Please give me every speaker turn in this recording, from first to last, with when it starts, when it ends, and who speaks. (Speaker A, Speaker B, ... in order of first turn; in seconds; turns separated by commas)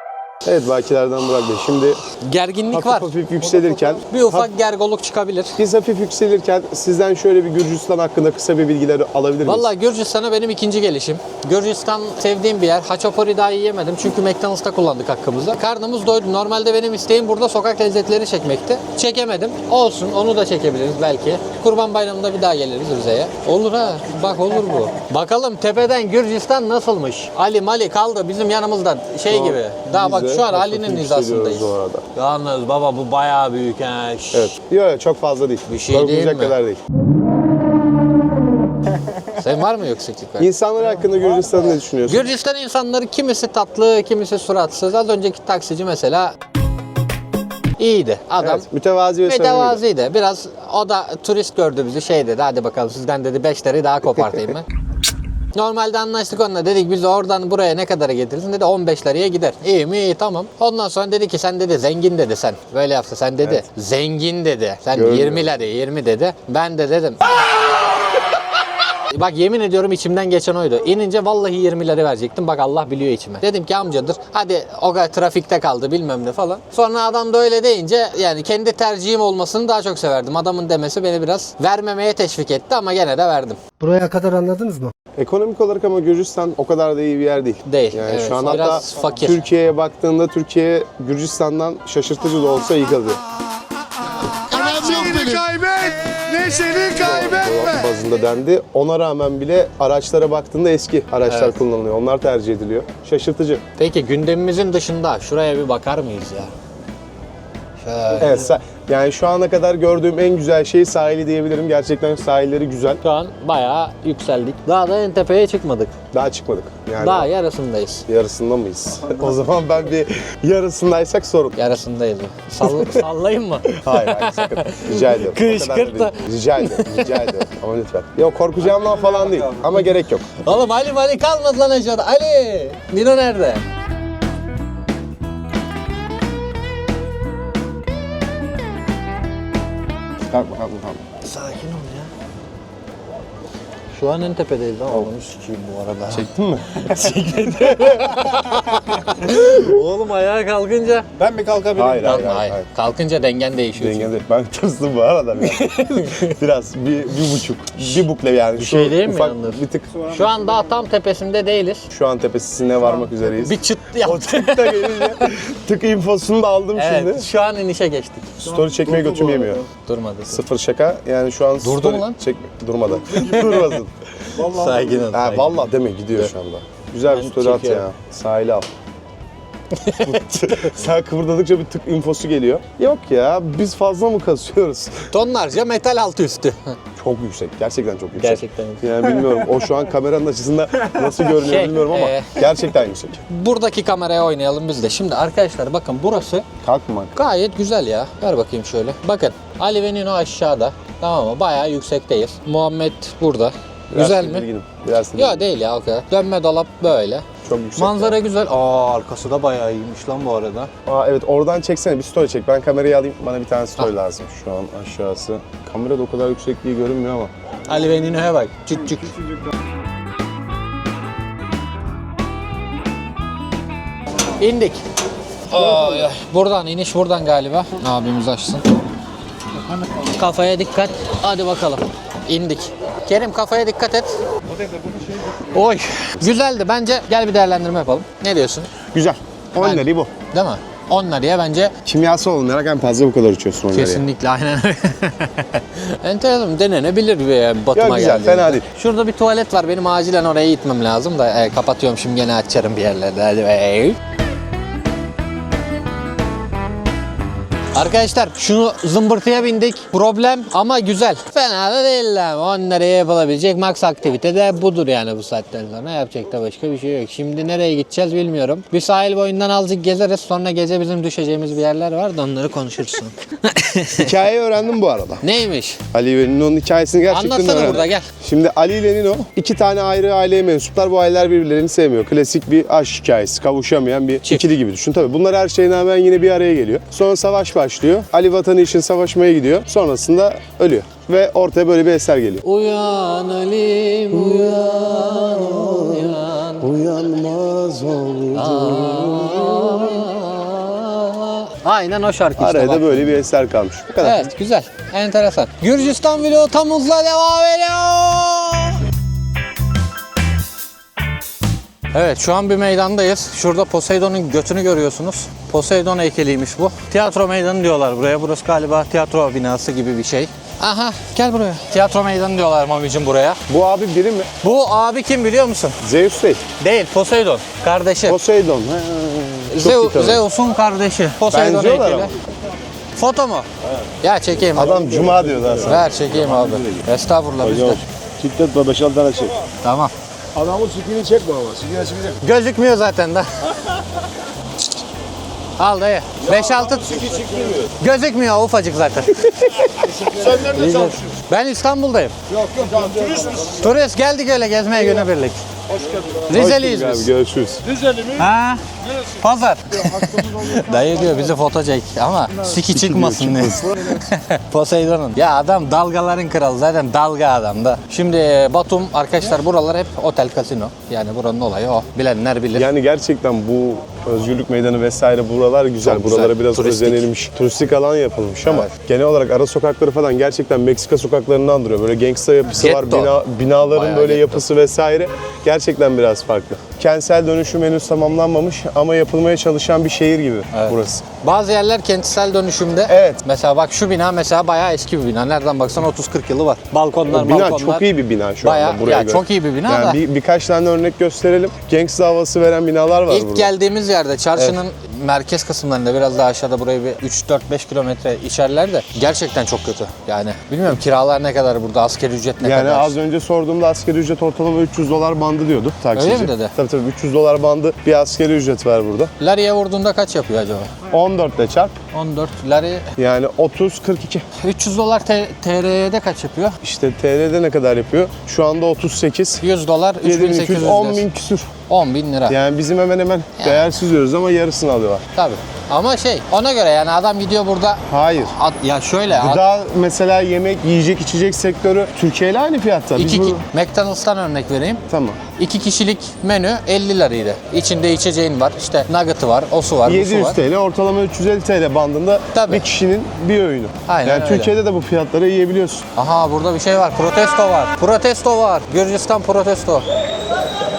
Speaker A: 0.5-2.0, Speaker B: 2.2-3.1, Speaker A: 2.7-4.5, Speaker B: 4.1-5.6, Speaker A: 5.6-9.7, Speaker B: 9.4-34.5, Speaker A: 29.3-32.0, Speaker A: 34.3-36.8, Speaker B: 35.7-36.6, Speaker B: 39.2-40.5, Speaker A: 40.4-42.3, Speaker B: 42.1-46.3, Speaker B: 47.8-48.7, Speaker A: 48.4-49.8, Speaker B: 49.2-54.7, Speaker B: 55.5-67.3, Speaker A: 64.9-65.7, Speaker B: 68.9-83.6, Speaker C: 83.8-84.9, Speaker A: 85.2-93.2, Speaker B: 87.7-89.4, Speaker A: 94.4-103.6, Speaker C: 95.8-96.8, Speaker B: 101.3-101.6, Speaker B: 103.8-106.5, Speaker B: 107.8-108.5, Speaker A: 108.2-113.0, Speaker B: 113.0-115.9, Speaker A: 116.1-117.3, Speaker B: 117.0-118.1, Speaker A: 118.1-121.6, Speaker B: 121.6-127.4, Speaker A: 122.6-123.0, Speaker A: 123.7-130.3, Speaker B: 130.4-133.6, Speaker A: 140.2-141.0, Speaker B: 141.2-142.1, Speaker B: 143.9-151.1, Speaker A: 146.1-148.2, Speaker D: 151.2-151.9, Speaker A: 151.7-152.7, Speaker B: 152.0-154.1, Speaker A: 153.8-160.0, Speaker B: 155.4-156.3, Speaker B: 158.6-161.9, Speaker A: 161.9-167.2, Speaker B: 163.3-165.3, Speaker B: 166.8-168.4, Speaker A: 168.4-169.7, Speaker D: 169.0-169.5, Speaker B: 169.9-170.4, Speaker A: 170.3-173.9, Speaker B: 171.6-172.2, Speaker B: 173.2-173.6, Speaker B: 174.3-176.3, Speaker D: 174.4-175.0, Speaker A: 175.1-178.7, Speaker B: 177.1-177.9, Speaker B: 179.7-180.7, Speaker A: 180.0-185.1, Speaker B: 185.1-186.8, Speaker A: 187.0-193.2, Speaker B: 188.1-188.8, Speaker B: 191.3-192.4, Speaker B: 193.3-196.5, Speaker A: 196.6-197.1, Speaker B: 197.1-204.5, Speaker A: 203.9-205.4, Speaker B: 205.1-207.2, Speaker A: 207.4-208.2, Speaker B: 207.8-210.7, Speaker A: 210.9-217.3, Speaker B: 217.7-219.2, Speaker B: 224.4-224.8, Speaker B: 225.5-228.7, Speaker A: 225.6-225.9, Speaker B: 229.9-234.1, Speaker D: 234.7-235.3, Speaker B: 235.3-238.7, Speaker A: 238.9-240.1, Speaker B: 239.6-241.7, Speaker A: 241.8-244.1, Speaker B: 243.7-254.0, Speaker A: 247.7-248.7, Speaker B: 257.8-274.1, Speaker A: 274.0-275.2, Speaker B: 275.2-275.8, Speaker A: 275.9-292.4, Speaker B: 277.1-278.1, Speaker B: 292.4-296.7, Speaker A: 294.1-300.1, Speaker B: 298.4-303.2, Speaker A: 302.4-304.2, Speaker B: 304.0-308.8, Speaker B: 311.9-323.4, Speaker A: 323.5-324.3, Speaker B: 324.4-325.8, Speaker A: 325.8-326.4, Speaker B: 326.6-328.2, Speaker A: 328.1-330.2, Speaker B: 329.5-332.1, Speaker A: 331.3-332.1, Speaker B: 332.9-333.5, Speaker B: 334.0-334.8, Speaker A: 334.5-336.8, Speaker B: 335.6-337.8, Speaker A: 337.4-339.4, Speaker B: 339.6-339.9, Speaker A: 340.4-342.2, Speaker B: 342.2-343.8, Speaker B: 345.6-349.6, Speaker A: 346.2-347.7, Speaker A: 349.4-351.1, Speaker B: 350.4-352.1, Speaker A: 352.3-353.5, Speaker D: 352.5-353.3, Speaker B: 353.4-355.4, Speaker A: 354.8-355.1, Speaker A: 355.7-357.8, Speaker B: 356.3-357.1, Speaker B: 358.0-372.7, Speaker A: 359.8-360.7, Speaker A: 362.6-364.0, Speaker A: 372.6-391.0, Speaker B: 375.8-377.1, Speaker B: 378.5-378.7, Speaker B: 382.6-383.1, Speaker B: 383.7-384.4, Speaker B: 390.5-397.9, Speaker A: 392.9-393.2, Speaker A: 397.1-403.5, Speaker B: 398.4-400.0, Speaker B: 403.1-413.0, Speaker A: 412.4-419.1, Speaker B: 415.9-416.5, Speaker B: 419.2-420.7, Speaker A: 420.9-421.8, Speaker B: 421.9-422.9, Speaker A: 423.0-424.2, Speaker B: 424.4-426.6, Speaker A: 426.6-429.4, Speaker B: 429.4-431.1, Speaker A: 430.0-431.5, Speaker B: 431.7-432.4, Speaker A: 432.3-435.0, Speaker B: 433.4-433.8, Speaker B: 435.1-439.4, Speaker A: 437.9-438.4, Speaker A: 439.1-443.4, Speaker B: 442.9-444.8, Speaker A: 444.9-445.2, Speaker B: 445.4-450.4, Speaker A: 449.9-455.9, Speaker B: 452.3-452.6, Speaker B: 453.9-454.5, Speaker B: 455.9-459.9